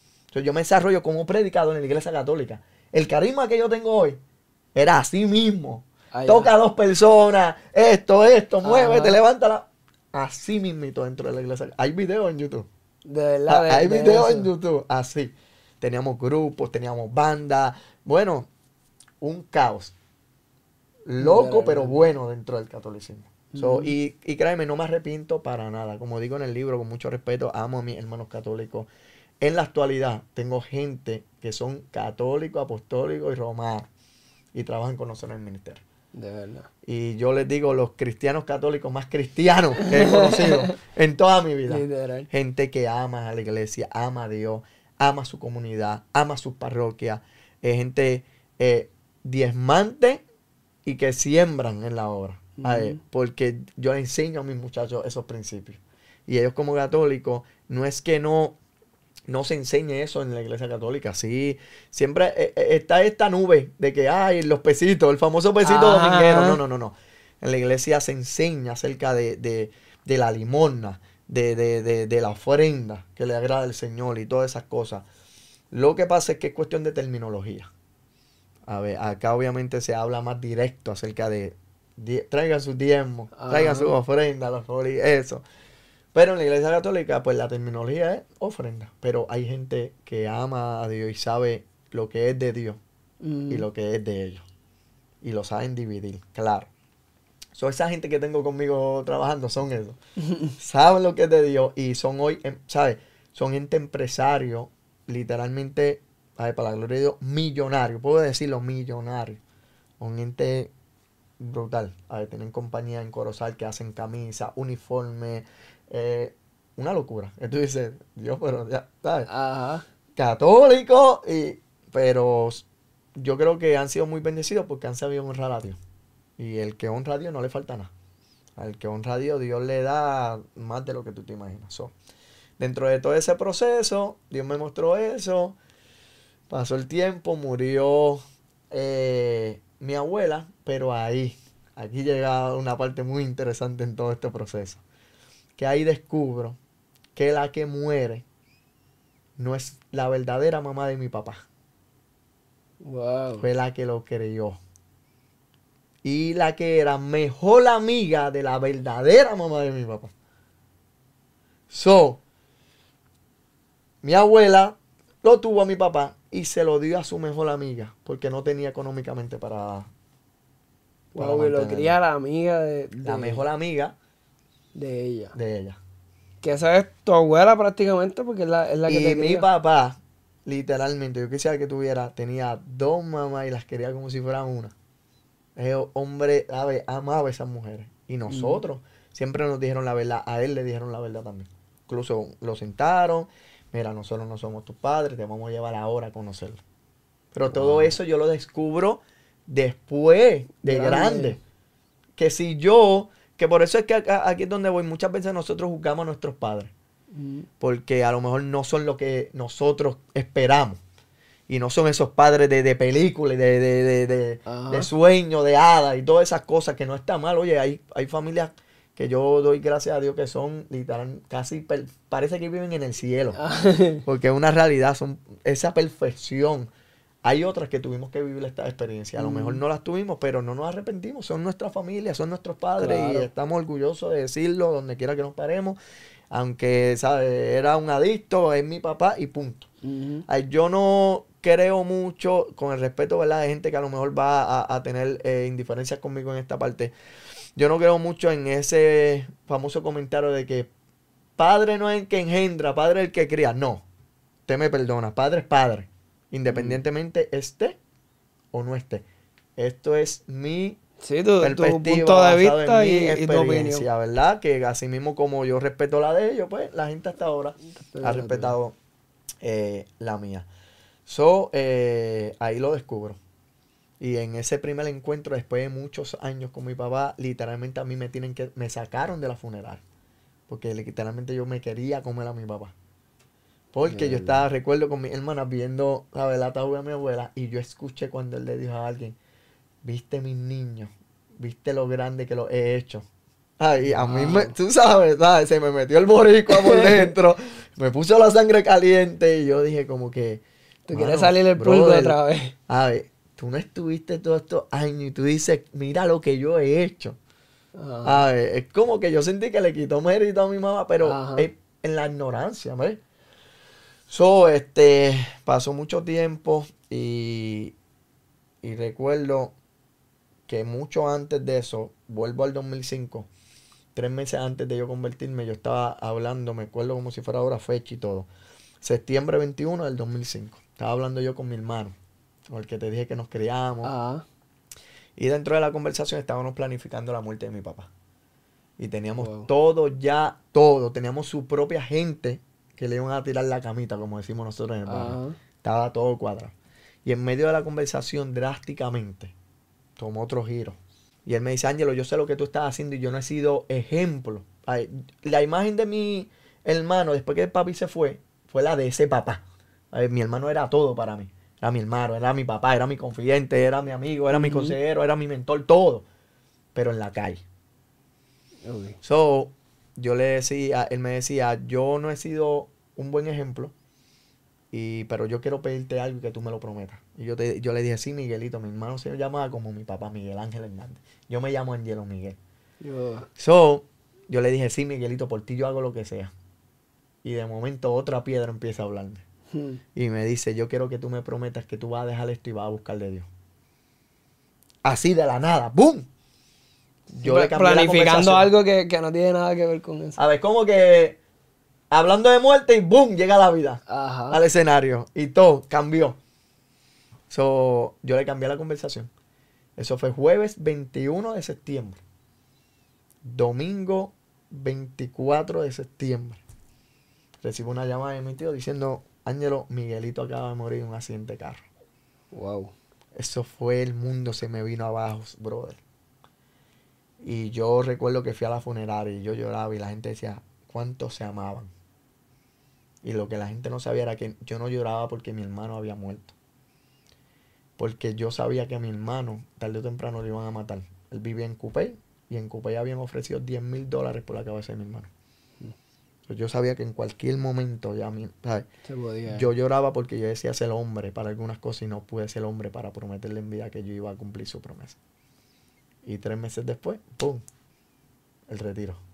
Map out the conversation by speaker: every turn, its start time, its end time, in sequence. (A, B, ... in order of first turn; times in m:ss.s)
0:00.3-0:04.2 A
0:04.7-0:12.7 A
0:06.1-0:06.5 B
0:08.6-0:09.2 B
0:13.0-0:14.5 B
0:13.5-0:18.5 A
0:19.2-0:19.9 A
0:21.1-0:28.9 A
0:21.2-0:22.0 B
0:23.5-0:23.9 B
0:29.4-0:33.9 A
0:34.5-0:35.8 A
0:36.1-0:36.7 B
0:36.8-0:50.2 A
0:39.9-0:40.7 B
0:41.7-0:42.3 B
0:50.8-0:58.6 A
0:52.6-0:53.0 B
0:59.3-1:15.0 A
1:05.6-1:06.6 B
1:15.7-1:17.7 A
1:18.7-1:25.4 A
1:23.4-1:23.9 B
1:26.1-1:32.8 A
1:33.2-1:33.7 B
1:33.5-1:34.4 A
1:35.2-1:36.7 A
1:37.5-1:40.0 A
1:40.2-1:40.5 B
1:40.6-1:49.4 A
1:50.0-1:50.7 A
1:51.4-1:59.3 A
1:59.3-1:59.8 B
2:00.2-2:05.8 A
2:06.4-2:07.9 A
2:08.6-2:11.9 A
2:12.6-2:15.6 A
2:16.5-2:24.8 A
2:25.6-2:26.6 A
2:27.1-2:28.2 A
2:29.4-2:31.4 A
2:32.8-2:33.5 B
2:33.4-2:34.6 A
2:36.0-2:40.1 A
2:41.7-2:42.2 A
2:44.0-2:49.9 A
2:51.1-2:52.0 A
2:51.1-2:53.4 B
2:53.0-2:53.9 A
2:54.7-2:55.3 B
2:55.3-2:55.8 A
2:56.4-2:59.4 B
2:58.9-3:04.7 A
3:05.6-3:16.6 A
3:08.3-3:08.6 B
3:17.3-3:21.4 A
3:17.5-3:17.9 B
3:20.6-3:21.4 B
3:22.2-3:26.7 A
3:27.1-3:27.5 B
3:27.6-3:30.8 A
3:31.5-3:43.4 A
3:34.4-3:34.9 B
3:43.3-3:44.0 B
3:44.0-3:46.7 A
3:47.2-3:55.8 A
3:49.2-3:49.6 B
3:52.8-3:53.3 B
3:56.3-3:59.7 A
3:59.8-4:00.2 B
4:00.3-4:06.9 A
4:07.6-4:10.7 A
4:11.4-4:13.8 A
4:14.5-4:17.8 A
4:16.5-4:16.8 B
4:18.5-4:19.0 A
4:19.6-4:20.8 A
4:21.0-4:23.9 B
4:21.4-4:28.7 A
4:27.9-4:28.5 B
4:29.4-4:30.5 A
4:31.1-4:33.2 A
4:34.0-4:39.8 A
4:40.5-4:42.7 A
4:43.7-4:49.2 A
4:43.8-4:44.4 B
4:49.8-4:53.0 A
4:53.6-5:07.2 A
4:53.8-4:54.5 B
4:56.5-4:57.1 B
5:00.9-5:02.5 B
5:07.7-5:08.2 B
5:08.0-5:13.0 A
5:11.0-5:11.5 B
5:14.1-5:17.8 A
5:18.6-5:19.5 A
5:20.5-5:23.3 A
5:23.9-5:28.3 A
5:28.8-5:31.9 A
5:32.5-5:33.9 A
5:33.8-5:34.2 B
5:35.2-5:37.9 A
5:38.8-5:46.5 A
5:39.2-5:39.5 B
5:44.9-5:45.4 B
5:47.0-5:49.3 A
5:50.0-6:06.0 A
6:04.3-6:04.8 B
6:06.7-6:07.4 A
6:08.6-6:09.0 B
6:09.0-6:13.7 A
6:14.7-6:22.4 A
6:22.8-6:23.3 B
6:23.4-6:26.3 A
6:27.2-6:29.2 A
6:29.5-6:29.8 B
6:29.9-6:33.3 A
6:34.8-6:36.0 A
6:37.1-6:38.5 A
6:37.2-6:40.2 B
6:40.2-6:41.2 A
6:41.9-6:46.2 A
6:43.9-6:44.4 B
6:47.3-6:49.1 A
6:49.8-6:52.0 A
6:53.2-6:56.4 A
6:57.4-7:01.6 A
7:02.3-7:02.7 B
7:03.1-7:05.8 A
7:07.2-7:11.7 A
7:13.0-7:16.3 A
7:17.8-7:25.1 A
7:26.3-7:28.7 A
7:28.8-7:29.4 B
7:29.3-7:35.0 A
7:36.0-7:37.4 A
7:38.5-7:39.0 A